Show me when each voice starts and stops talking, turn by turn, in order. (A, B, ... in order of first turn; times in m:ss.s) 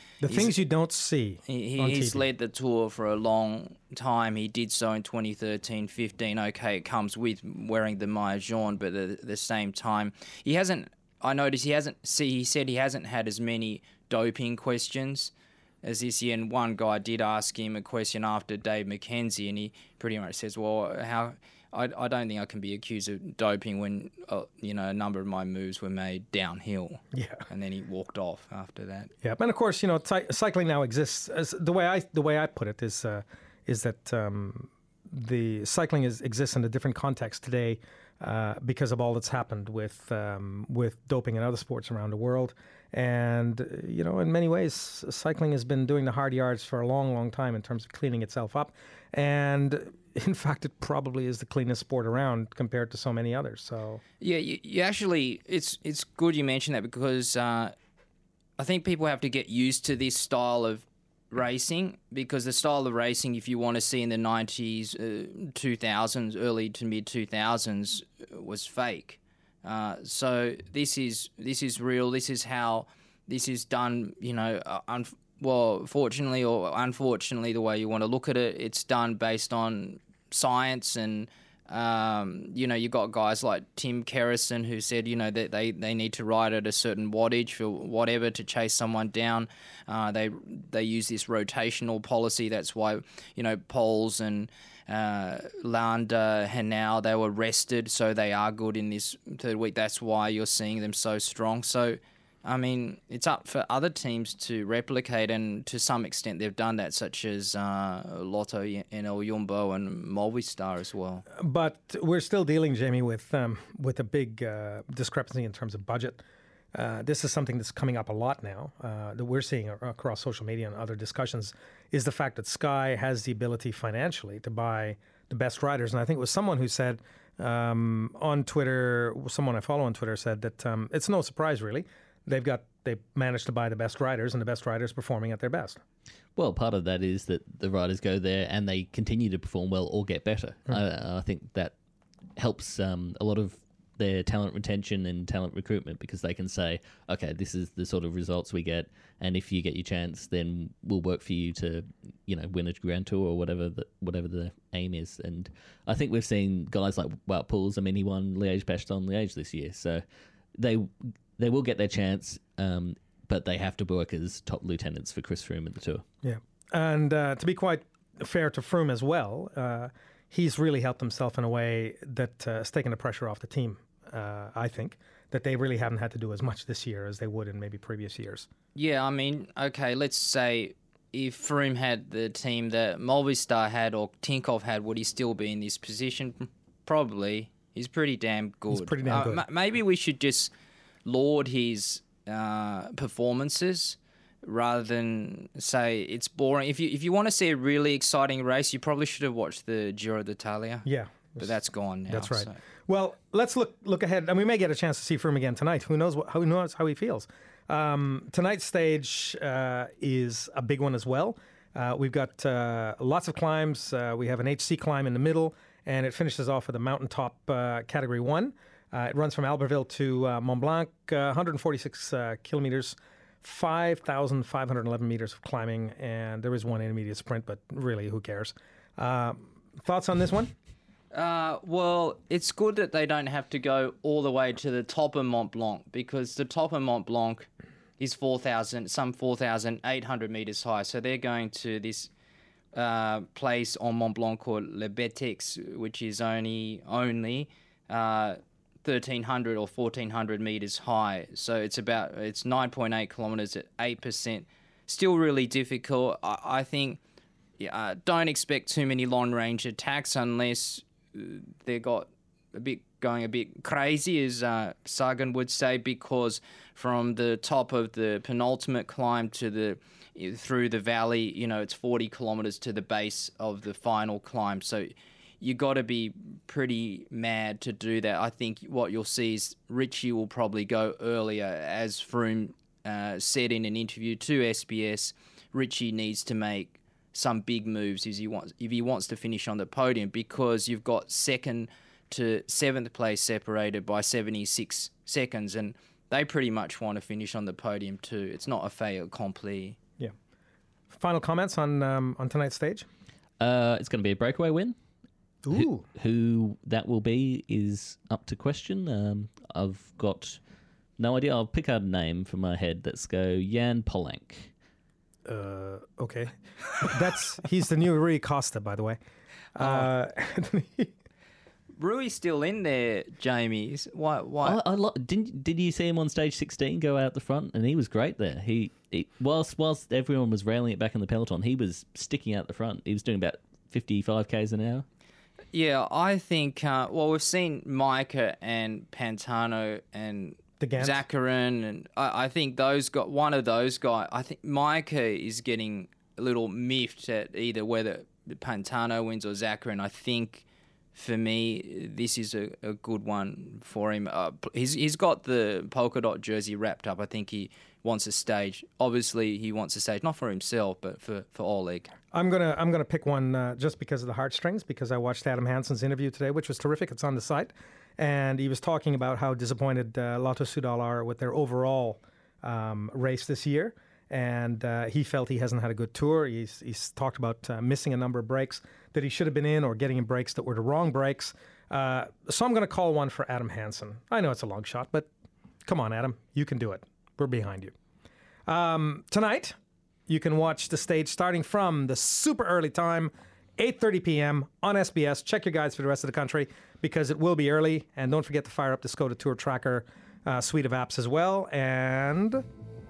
0:00.2-0:02.2 A
0:00.3-0:00.6 B
0:01.5-0:29.1 B
0:27.1-0:27.4 A
0:29.2-0:54.0 A
0:54.2-0:57.7 B
0:58.6-1:51.2 B
1:51.4-1:56.2 A
1:56.7-2:15.8 A
2:16.4-2:21.7 C
2:22.4-2:40.0 C
2:40.6-2:46.0 C
2:46.2-2:58.5 A
2:58.7-3:10.5 B
3:08.7-3:09.4 A
3:11.0-3:20.8 B
3:20.8-3:21.5 A
3:21.4-3:22.6 B
3:22.1-3:50.5 A
3:51.1-3:57.5 B
3:58.0-4:02.1 B
4:02.7-4:17.0 B
4:17.6-4:59.8 B
5:00.9-5:02.8 A
5:03.4-5:04.7 C
5:05.4-5:05.8 A
5:05.5-5:10.4 C
5:11.0-5:14.5 C
5:15.2-5:19.0 A
5:19.6-5:20.9 A
5:19.6-5:19.9 B
5:21.8-5:24.6 B
5:24.4-5:34.8 C
5:35.5-6:01.9 B
5:40.6-5:41.0 A
6:02.1-6:25.1 A
6:25.6-6:27.7 A
6:28.5-6:29.6 A
6:30.1-6:42.4 A